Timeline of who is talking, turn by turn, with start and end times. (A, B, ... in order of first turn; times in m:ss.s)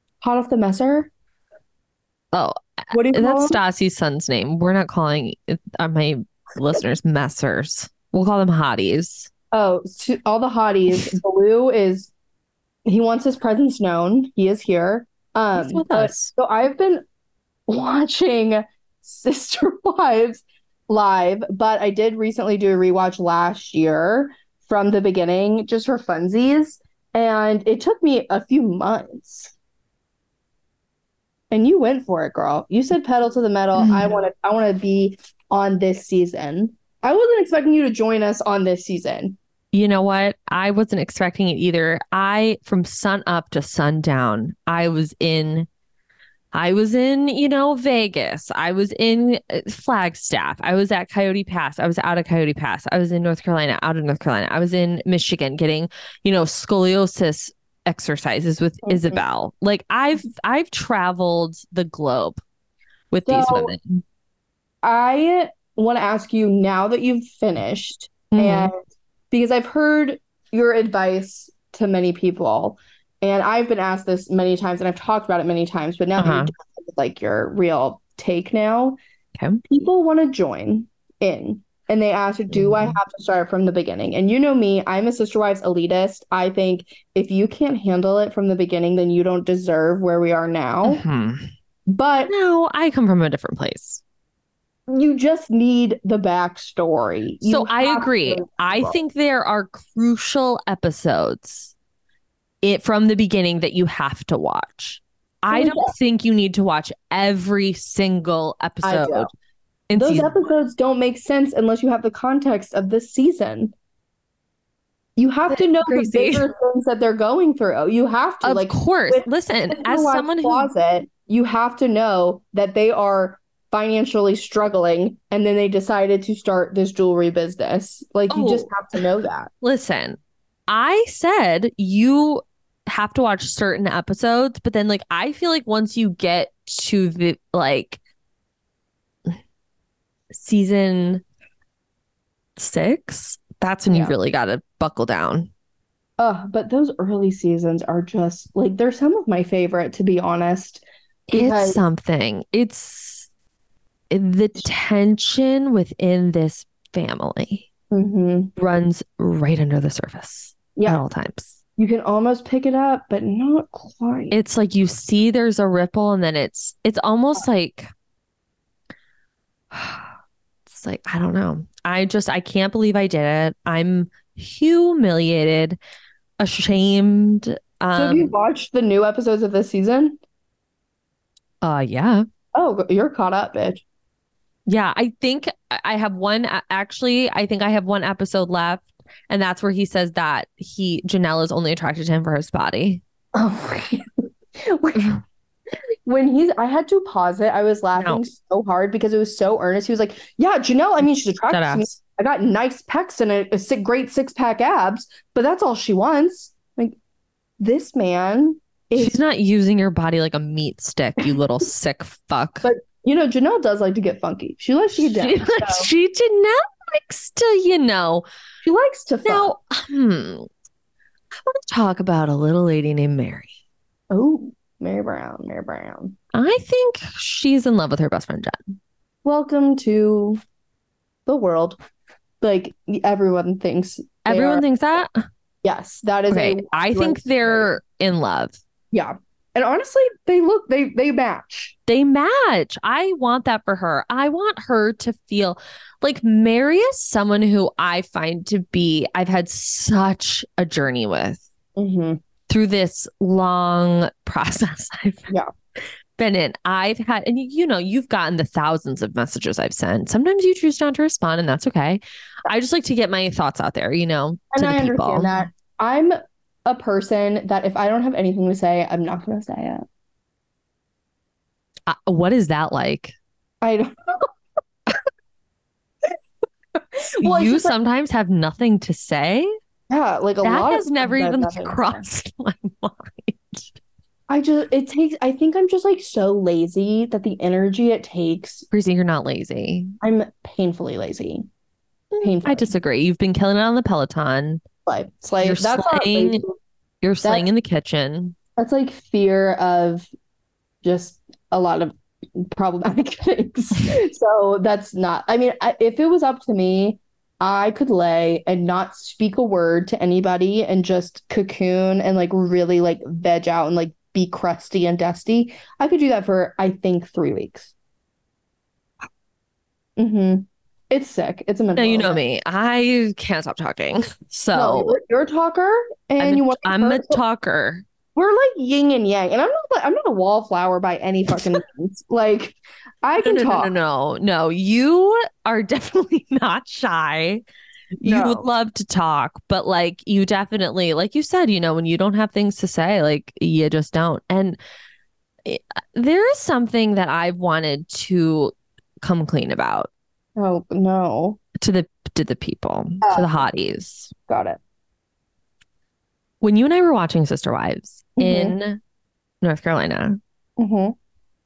0:00.2-0:01.1 A
0:02.3-0:09.3 B
0:02.9-0:03.6 A
0:09.5-0:12.1 A
0:10.9-0:11.2 B
0:12.8-0:17.0 A
0:15.5-0:16.3 B
0:17.7-0:29.5 A
0:31.5-0:39.4 A
0:33.8-0:34.2 B
0:39.7-0:45.7 B
0:46.5-1:02.4 B
0:58.9-0:59.2 A
1:03.1-1:04.0 B
1:03.3-1:03.8 A
1:04.8-1:19.0 A
1:08.3-1:08.7 B
1:16.2-1:16.5 B
1:19.4-1:19.6 B
1:19.7-1:31.0 A
1:22.5-1:23.0 B
1:30.8-1:31.5 B
1:31.9-1:32.3 A
1:32.3-1:34.0 B
1:34.9-1:39.0 A
1:37.4-1:41.7 B
1:42.6-1:49.3 B
1:45.5-1:46.0 A
1:48.8-1:49.3 A
1:49.9-1:50.4 B
1:50.0-1:53.7 A
1:55.2-2:09.5 A
1:55.5-1:56.5 B
1:58.4-2:00.7 B
2:08.3-2:08.7 B
2:09.6-2:18.0 B
2:20.3-2:21.2 B
2:22.6-2:25.5 B
2:26.2-2:31.8 A
2:31.3-2:33.3 B
2:34.1-2:37.7 B
2:37.9-2:38.5 A
2:38.6-2:41.6 B
2:40.8-2:41.0 A
2:41.8-2:44.4 A
2:44.3-2:47.9 B
2:49.7-2:50.1 B
2:50.7-2:55.8 B
2:56.4-2:58.3 B
2:57.9-3:00.2 A
3:01.6-3:02.2 B
3:02.6-3:03.8 A
3:04.7-3:13.0 B
3:13.4-3:15.1 A
3:16.1-3:27.0 A
3:18.0-3:18.2 B
3:21.5-3:21.9 B
3:27.6-3:29.2 A
3:29.0-3:32.7 B
3:32.6-3:35.9 A
3:35.0-3:38.2 B
3:38.6-3:39.6 A
3:39.2-3:40.5 B
3:41.5-3:43.5 B
3:44.1-3:46.2 A
3:46.3-3:48.6 B
3:49.2-3:50.4 A
3:51.3-3:51.8 A
3:52.4-3:54.6 A
3:54.2-3:55.2 B
3:55.6-3:57.7 A
3:56.3-3:58.6 B
3:58.9-4:01.8 A
4:01.9-4:11.5 B
4:11.8-4:12.2 A
4:12.5-4:15.3 B
4:16.2-4:25.5 B
4:24.5-4:29.9 A
4:31.9-4:33.1 B
4:33.6-4:34.3 A
4:36.8-4:37.8 A
4:37.2-4:39.5 B
4:39.9-4:42.0 A
4:40.4-4:43.7 B
4:44.3-4:48.7 A
4:48.7-4:49.9 B
4:50.0-4:51.5 A
4:52.1-4:54.6 B
4:52.2-4:52.7 A
4:54.9-4:56.6 A
4:55.4-4:56.4 B
4:57.0-4:58.4 B
4:58.6-5:00.1 A
5:00.8-5:17.7 A
5:20.0-5:22.2 A
5:21.8-5:25.0 B
5:24.5-5:27.2 A
5:26.2-5:27.8 B
5:28.2-5:33.7 A
5:33.2-5:37.4 B
5:38.0-5:44.6 B
5:38.0-5:38.5 A
5:45.4-5:49.9 B
5:50.4-5:51.4 A
5:51.6-5:54.1 B
5:53.0-5:53.4 A
5:54.3-5:54.6 A
5:56.4-5:58.8 B
5:58.2-5:58.6 A
5:59.4-6:00.2 B
6:00.6-6:01.0 A